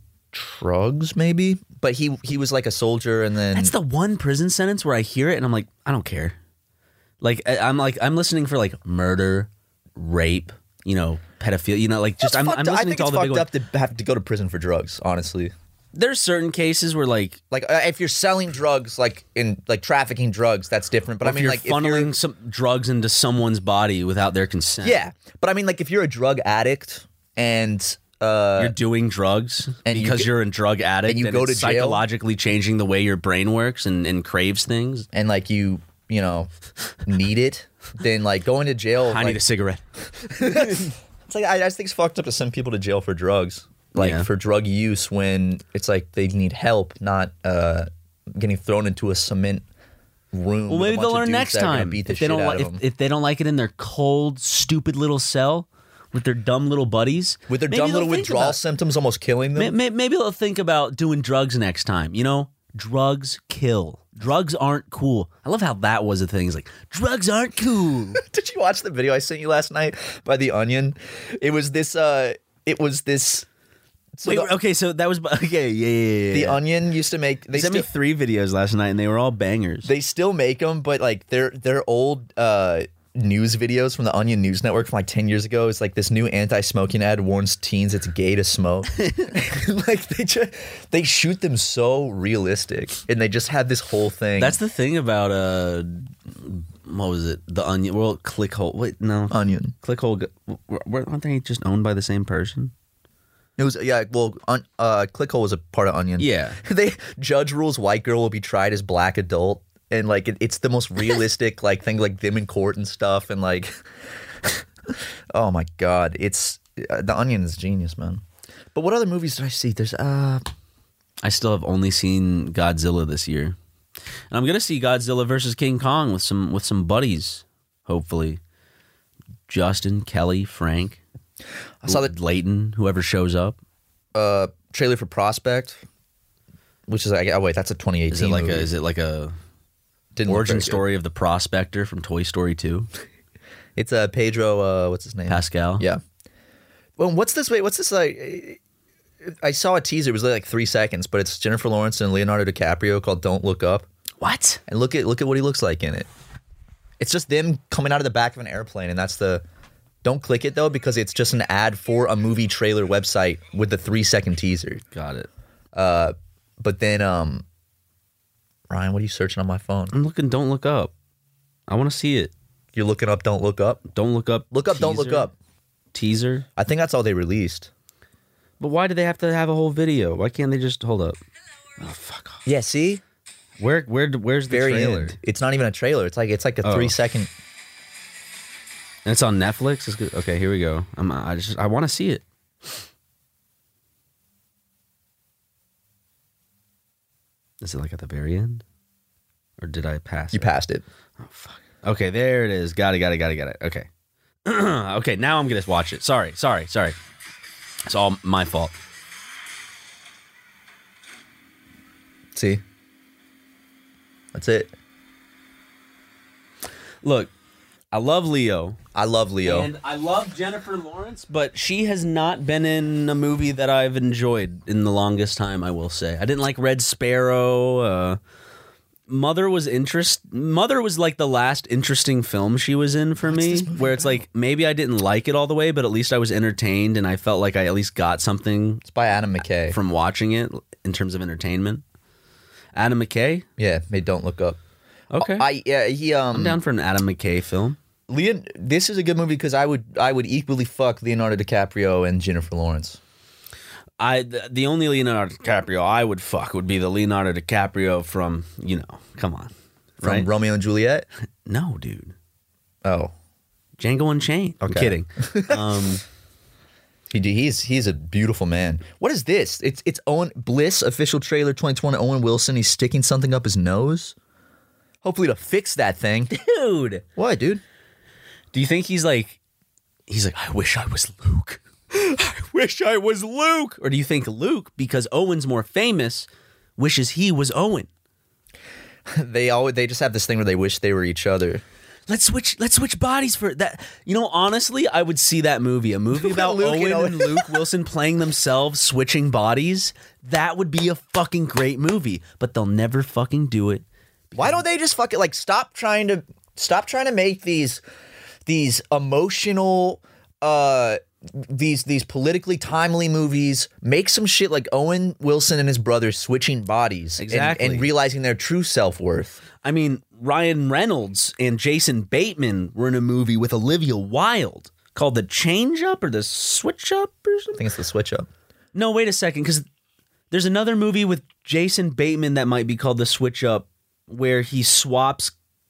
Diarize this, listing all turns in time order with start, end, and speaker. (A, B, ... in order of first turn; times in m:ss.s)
0:00.3-0:03.7 A
0:03.5-0:06.4 B
0:07.2-0:13.5 B
0:12.2-0:15.5 A
0:15.9-0:17.4 B
0:17.5-0:22.1 A
0:21.2-0:25.0 B
0:24.8-0:28.8 A
0:28.6-0:35.1 B
0:29.9-0:30.3 A
0:31.1-0:32.0 A
0:35.1-0:36.5 A
0:37.1-0:39.4 A
0:39.0-0:39.8 B
0:40.2-0:49.6 A
0:40.4-0:40.9 B
0:44.0-0:44.3 B
0:50.3-0:52.8 A
0:50.7-0:58.6 B
0:57.5-0:59.7 A
0:59.6-1:08.2 B
1:08.2-1:13.4 A
1:14.2-1:14.5 A
1:14.2-1:16.6 B
1:16.3-1:17.9 A
1:17.5-1:19.9 B
1:19.9-1:34.6 A
1:29.0-1:29.3 B
1:34.4-1:42.7 B
1:39.3-1:39.7 A
1:43.6-1:53.8 A
1:46.2-1:46.6 B
1:54.4-1:58.2 A
1:58.7-2:00.4 A
2:01.2-2:03.6 B
2:04.3-2:08.4 B
2:09.5-2:11.0 B
2:11.8-2:12.1 A
2:11.9-2:13.6 B
2:14.1-2:15.8 A
2:16.9-2:18.7 A
2:18.1-2:19.3 B
2:20.2-2:20.8 A
2:20.3-2:22.9 B
2:23.8-2:26.0 A
2:25.3-2:25.9 B
2:27.0-2:28.6 A
2:29.2-2:33.9 A
2:34.2-2:34.6 B
2:34.7-2:36.1 A
2:37.0-2:39.4 A
2:40.0-2:44.8 A
2:44.9-2:45.3 B
2:45.7-2:47.4 A
2:48.7-2:49.9 A
2:49.9-2:50.9 B
2:51.7-2:52.3 B
2:52.7-2:53.8 A
2:53.9-2:55.3 B
2:54.5-2:55.3 A
2:55.9-2:56.4 B
2:56.6-2:57.7 A
2:58.6-3:01.2 B
3:01.8-3:02.4 B
3:02.4-3:03.0 A
3:03.6-3:05.2 B
3:04.5-3:07.3 A
3:06.6-3:06.9 B
3:09.0-3:12.8 B
3:17.6-3:18.6 B
3:19.6-3:20.5 B
3:20.3-3:20.8 A
3:21.2-3:23.9 B
3:24.4-3:27.0 B
3:27.9-3:28.8 B
3:32.4-3:32.6 A
3:34.3-3:34.7 A
3:37.0-3:37.3 B
3:37.9-3:38.8 B
3:38.9-3:39.7 A
3:39.4-3:48.2 B
3:49.1-3:58.8 B
3:53.3-3:54.2 A
3:58.9-3:59.8 A
3:59.7-4:01.8 B
4:02.7-4:03.4 B
4:03.6-4:04.6 A
4:05.1-4:05.5 B
4:05.2-4:06.6 A
4:06.3-4:07.8 B
4:08.1-4:13.0 A
4:14.0-4:20.3 B
4:20.0-4:21.1 A
4:21.4-4:22.1 B
4:22.8-4:23.1 A
4:23.8-4:26.0 B
4:24.6-4:25.7 A
4:27.1-4:34.1 A
4:35.0-4:36.3 A
4:36.3-4:37.0 B
4:37.1-4:37.6 A
4:38.5-4:39.4 B
4:40.1-4:47.9 B
4:49.1-4:51.6 A
4:52.1-5:04.6 B
4:56.1-4:57.6 A
5:04.4-5:07.8 A
5:08.4-5:19.4 A
5:17.2-5:17.9 B
5:19.6-5:27.6 B
5:27.6-5:28.3 A
5:28.7-5:29.6 B
5:30.3-5:35.3 B